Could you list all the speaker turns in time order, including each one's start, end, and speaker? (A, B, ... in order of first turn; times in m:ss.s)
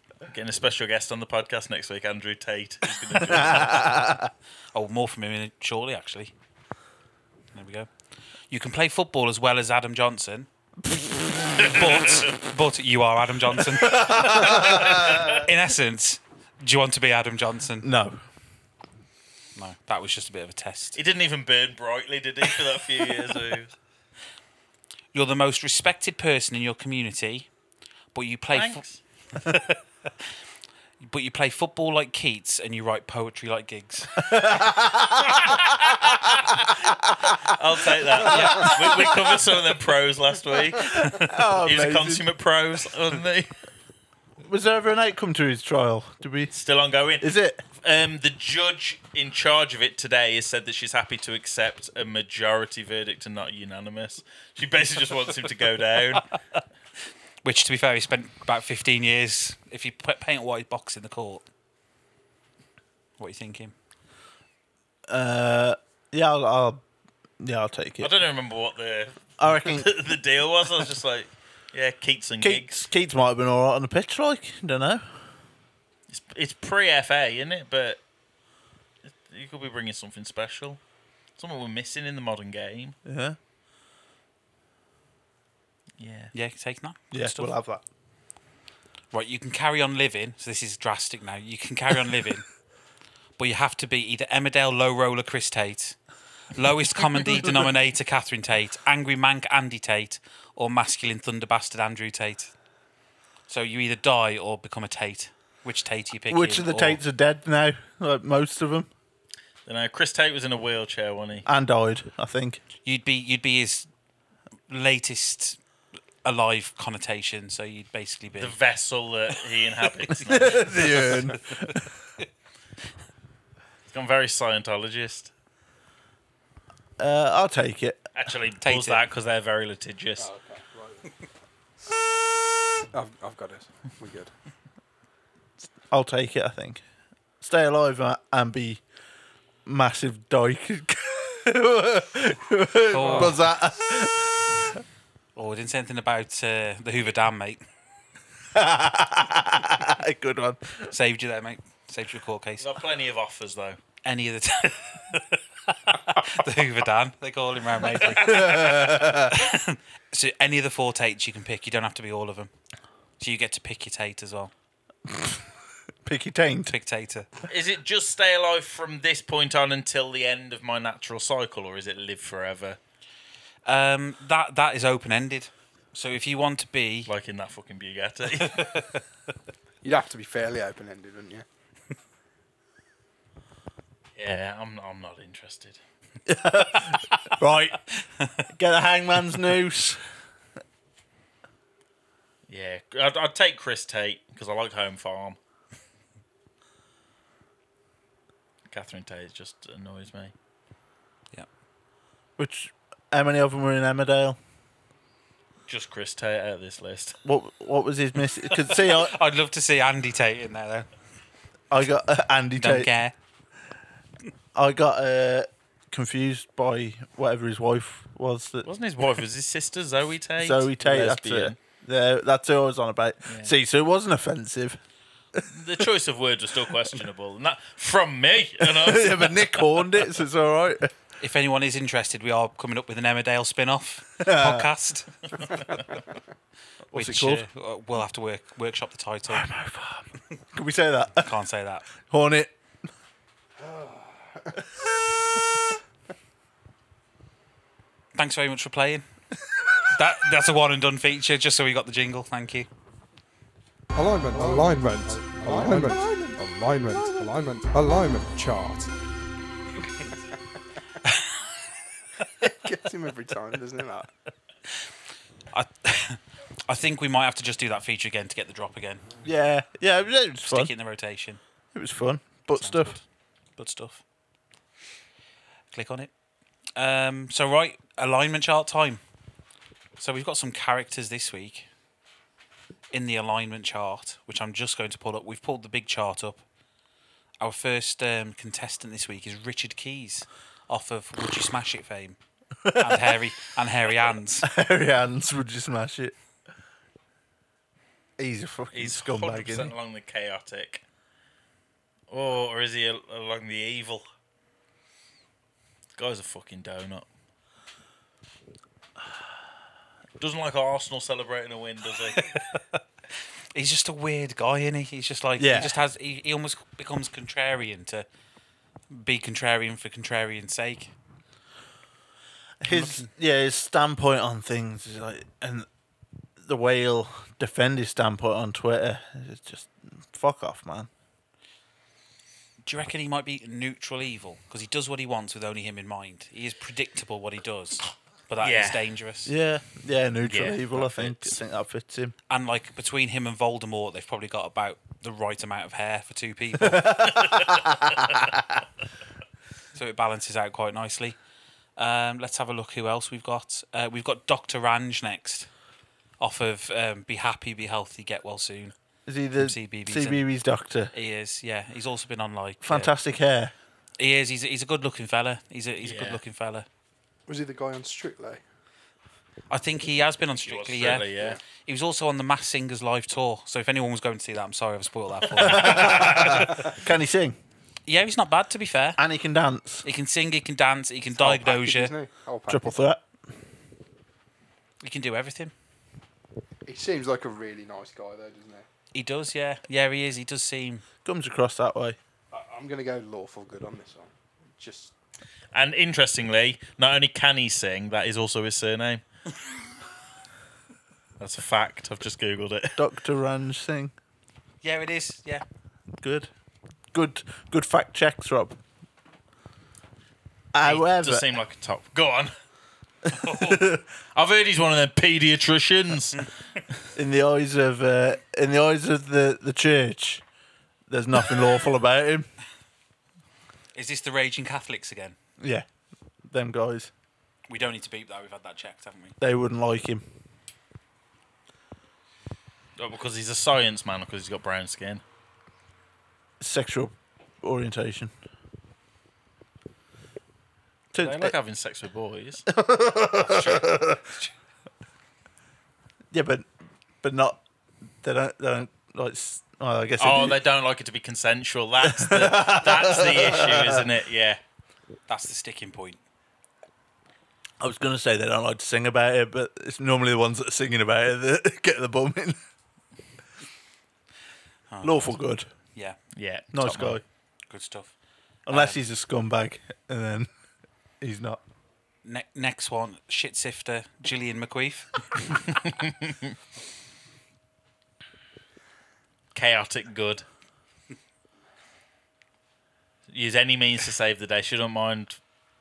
0:00.3-0:03.8 A
0:03.3-0:04.3 B
0:04.7-0:06.3 C
0:07.5-0:07.9 C
0:08.5-0:10.5 C
0:11.0-0:11.7 B
0:11.5-0:17.9 C
0:13.7-0:15.4 B
0:17.8-0:18.2 B
0:19.6-0:21.0 C
0:20.9-0:23.7 A
0:25.1-0:27.5 C
0:28.1-0:28.8 C
0:28.5-0:29.0 A
0:29.4-0:29.6 C
0:31.0-0:34.3 C
0:34.2-0:37.3 B
0:37.5-0:41.0 A
0:38.2-0:38.8 C
0:38.2-0:39.1 B
0:40.9-0:42.2 B
0:41.6-0:43.5 A
0:44.4-0:46.5 B
0:46.5-0:56.2 A
0:47.2-0:47.6 B
0:57.4-1:01.4 C
1:03.2-1:03.7 C
1:05.1-1:06.8 B
1:07.4-1:08.1 B
1:08.0-1:12.8 A
1:09.4-1:09.9 B
1:12.4-1:15.0 B
1:16.1-1:18.0 A
1:19.0-1:20.8 A
1:21.4-1:23.0 A
1:23.0-1:23.4 B
1:26.0-1:26.3 A
1:26.3-1:27.5 C
1:27.1-1:27.8 B
1:29.1-1:32.5 C
1:33.4-1:36.0 C
1:36.5-1:42.5 C
1:43.5-1:47.0 C
1:46.3-1:48.9 B
1:49.6-1:51.5 A
1:51.4-1:52.6 B
1:52.8-1:53.9 C
1:54.7-1:55.6 C
1:56.2-1:58.5 C
1:58.4-2:01.1 A
2:00.2-2:01.9 B
2:00.6-2:01.2 C
2:03.9-2:05.3 A
2:07.0-2:08.1 B
2:08.1-2:10.3 A
2:08.6-2:09.0 C
2:10.2-2:11.1 D
2:12.9-2:14.3 D
2:15.9-2:16.8 B
2:17.4-2:18.8 B
2:19.6-2:24.8 B
2:22.9-2:23.5 C
2:25.3-2:27.6 C
2:28.5-2:30.9 B
2:30.9-2:32.7 C
2:32.6-2:33.8 A
2:34.0-2:35.2 C
2:35.9-2:42.5 C
2:38.0-2:39.4 B
2:43.2-2:44.5 C
2:45.1-2:45.4 B
2:46.0-2:46.7 B
2:46.7-2:47.3 C
2:47.5-2:52.8 A
2:53.6-2:57.1 C
2:57.0-2:58.6 A
2:58.4-2:59.0 C
2:59.8-3:01.4 D
3:04.2-3:05.8 A
3:06.2-3:07.8 B
3:08.5-3:10.0 B
3:12.5-3:15.4 A
3:18.7-3:20.3 A
3:22.4-3:24.4 B
3:25.7-3:27.2 A
3:27.2-3:29.1 B
3:28.5-3:30.9 C
3:31.7-3:32.9 B
3:32.6-3:33.1 C
3:34.5-3:38.7 B
3:38.6-3:41.6 A
3:40.4-3:44.8 B
3:43.2-3:43.5 A
3:45.5-3:49.8 A
3:48.6-3:50.9 B
3:51.2-3:55.8 C
3:54.2-3:54.7 B
3:56.9-3:57.4 B
3:56.9-3:59.5 C
3:59.3-4:01.3 B
4:01.2-4:01.9 C
4:02.0-4:02.5 B
4:03.6-4:04.6 D
4:08.1-4:09.0 C
4:09.9-4:12.7 C
4:13.9-4:18.9 E
4:14.3-4:16.4 D
4:16.9-4:17.5 D
4:22.4-4:24.1 D
4:25.5-4:29.1 C
4:29.2-4:30.7 B
4:30.4-4:31.4 C
4:31.7-4:32.9 B
4:32.5-4:33.0 C
4:33.6-4:34.0 C
4:35.7-4:36.1 C
4:36.8-4:39.0 C
4:40.0-4:41.7 C
4:42.9-4:46.4 C
4:47.4-4:52.2 C
4:52.6-4:53.2 B
4:52.7-4:54.5 C
4:54.4-4:56.1 B
4:58.2-4:59.7 B
4:58.7-5:00.8 A
5:02.1-5:04.0 A
5:06.0-5:07.1 A
5:10.2-5:12.2 A
5:13.5-5:18.0 C
5:15.4-5:15.8 B
5:18.9-5:20.9 C
5:22.6-5:25.7 B
5:22.7-5:23.1 C
5:26.4-5:30.9 B
5:32.6-5:39.3 C
5:38.4-5:38.8 A
5:39.2-5:42.1 B
5:40.2-5:41.4 A
5:42.3-5:47.3 C
5:46.6-5:48.3 B
5:49.7-5:51.2 C
5:51.8-5:55.5 C
5:56.2-5:58.7 C
5:59.1-6:00.9 B
5:59.4-6:00.2 C
6:00.9-6:02.9 C
6:02.6-6:03.5 B
6:04.0-6:06.6 C
6:05.8-6:06.2 A
6:07.3-6:08.4 D
6:09.5-6:16.7 C
6:10.4-6:11.4 A
6:15.4-6:17.4 B
6:17.9-6:19.0 C
6:19.0-6:19.8 B
6:19.8-6:21.9 C
6:21.2-6:22.7 D
6:22.5-6:23.0 B
6:24.8-6:25.5 C
6:26.6-6:28.6 D
6:28.9-6:30.8 C
6:31.0-6:32.0 B
6:32.3-6:34.9 D
6:35.5-6:39.0 A
6:41.2-6:42.8 A
6:42.8-6:43.9 B
6:44.6-6:45.4 C
6:46.0-6:46.3 B
6:46.9-6:48.6 B
6:50.5-6:51.2 B
6:50.6-6:52.3 A
6:53.1-6:53.8 B
6:53.2-6:53.6 C
6:54.1-6:56.2 A
6:57.0-7:00.2 B
7:00.9-7:02.3 B
7:03.7-7:05.2 C
7:05.4-7:05.6 B
7:06.3-7:06.9 B
7:07.5-7:09.2 C
7:09.2-7:10.0 B
7:12.8-7:15.0 A
7:16.4-7:18.1 B
7:20.9-7:21.3 B
7:21.0-7:22.4 A
7:22.5-7:24.0 B
7:23.2-7:24.3 C
7:26.1-7:26.5 B
7:27.0-7:27.4 B
7:28.0-7:30.4 B
7:30.0-7:34.4 A
7:31.8-7:33.9 B
7:35.1-7:36.0 C
7:37.6-7:42.4 B
7:44.7-7:45.2 C
7:44.8-7:45.5 B
7:46.1-7:47.0 A
7:46.5-7:47.0 B
7:47.5-7:47.9 C
7:48.5-7:48.8 C
7:48.5-7:50.3 B
7:51.0-7:51.4 B
7:52.0-7:55.6 C
7:55.6-7:56.3 A
7:59.3-8:00.2 A
8:03.1-8:05.2 A